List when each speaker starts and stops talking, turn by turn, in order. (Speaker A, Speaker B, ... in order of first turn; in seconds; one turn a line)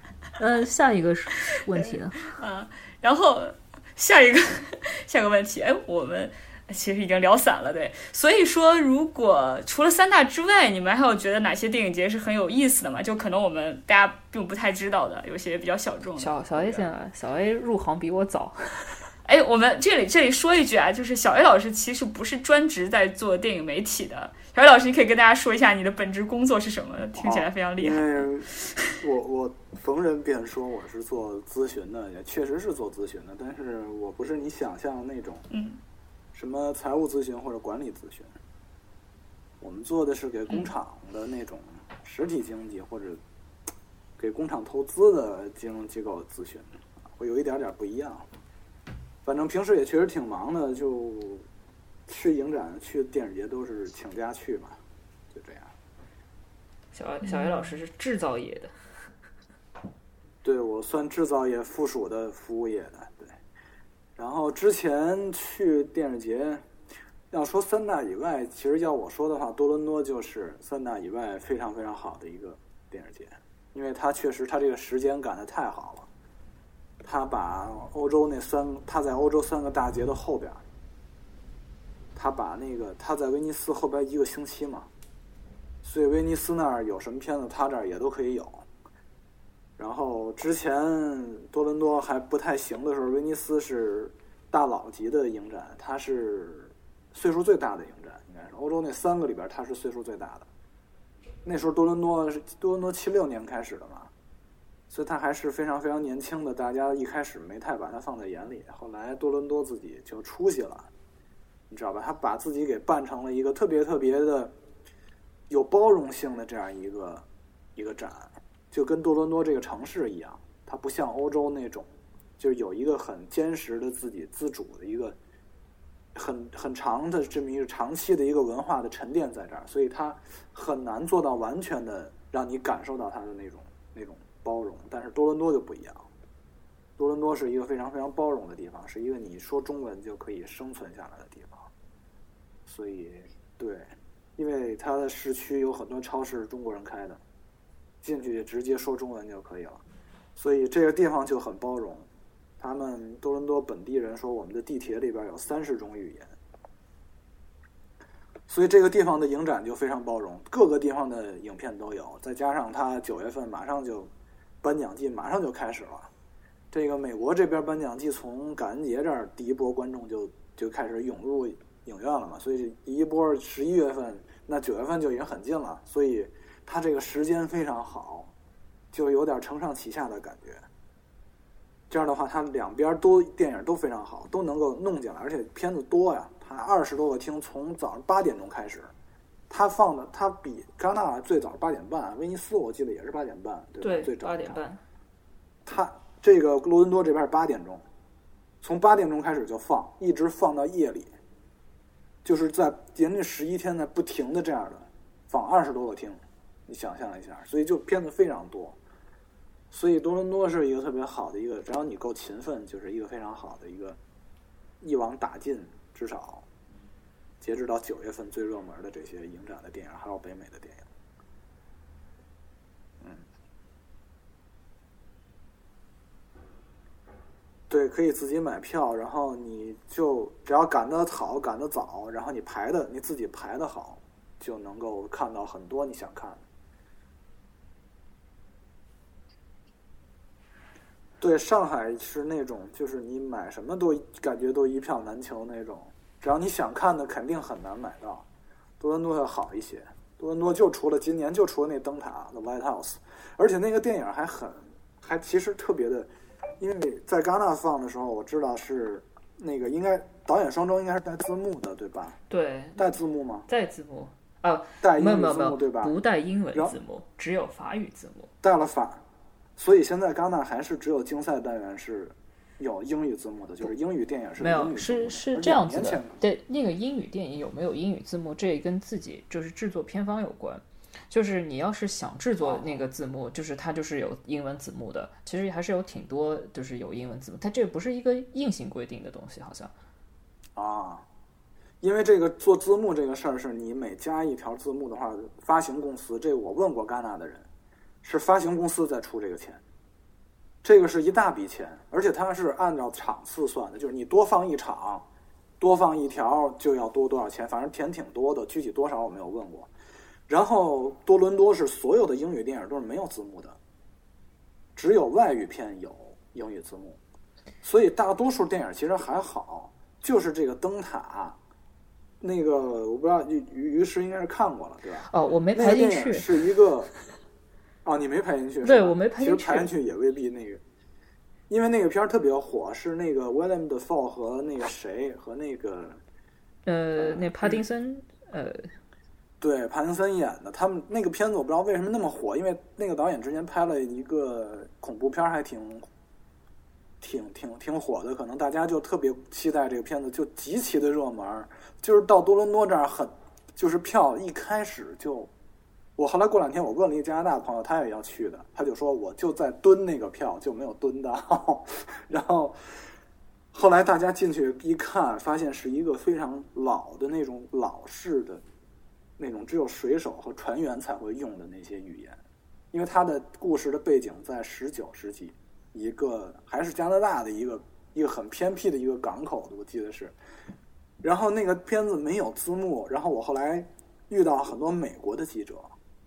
Speaker A: 0.4-2.4
Speaker B: 1.8-16.3
Speaker A: 16.2-19.0
Speaker C: 16.6-16.9
Speaker B: 19.2-28.2
Speaker C: 27.2-35.5
Speaker B: 35.5-35.8
Speaker C: 36.3-38.3
Speaker C: 39.6-43.2
Speaker C: 44.2-48.3
Speaker C: 49.2-51.5
Speaker C: 52.1-54.8
Speaker C: 55.3-55.7
Speaker A: 56.9-58.7
Speaker B: 57.2-57.7
Speaker C: 60.4-63.4
Speaker C: 64.2-66.7
Speaker C: 67.3-76.1
Speaker C: 77.0-80.6
Speaker C: 82.2-84.9
Speaker C: 85.8-88.7
Speaker C: 89.8-100.5
Speaker C: 101.4-104.1
Speaker C: 104.9-110.9
Speaker C: 111.7-114.5
Speaker C: 115.5-117.2
Speaker C: 117.8-125.2
Speaker C: 126.2-136.1
Speaker C: 137.0-141.7
Speaker C: 142.7-147.2
Speaker C: 148.0-149.8
Speaker C: 150.4-152.1
Speaker C: 152.6-156.3
Speaker C: 158.5-164.1
Speaker C: 164.6-166.1
Speaker C: 166.7-178.3
Speaker C: 178.9-180.7
Speaker C: 181.9-188.9
Speaker C: 189.5-194.6
Speaker A: 193.8-194.8
Speaker C: 195.7-197.8
Speaker C: 198.6-201.1
Speaker C: 202.2-208.8
Speaker C: 209.7-214.0
Speaker C: 214.8-216.5
Speaker C: 217.4-220.9
Speaker C: 227.7-236.4
Speaker C: 241.2-248.2
Speaker C: 248.8-262.2
Speaker A: 262.3-262.9
Speaker C: 262.8-263.5
Speaker A: 263.5-268.3
Speaker C: 264.8-265.9
Speaker C: 266.5-266.8
Speaker C: 268.4-269.0
Speaker C: 269.6-276.1
Speaker A: 274.4-289.7
Speaker C: 282.4-282.8
Speaker C: 290.6-291.1
Speaker C: 291.8-297.5
Speaker C: 298.0-299.6
Speaker C: 300.6-305.1
Speaker C: 305.6-309.7
Speaker C: 310.3-313.6
Speaker C: 314.8-317.0
Speaker C: 317.6-321.4
Speaker C: 322.2-326.9
Speaker A: 325.1-326.3
Speaker C: 327.8-330.6
Speaker A: 328.6-329.7
Speaker C: 331.5-336.0
Speaker A: 336.7-338.7
Speaker C: 337.0-337.6
Speaker C: 339.4-345.9
Speaker C: 347.0-355.3
Speaker C: 356.0-362.6
Speaker C: 363.5-368.4
Speaker C: 369.2-372.2
Speaker C: 372.7-380.1
Speaker C: 381.0-385.8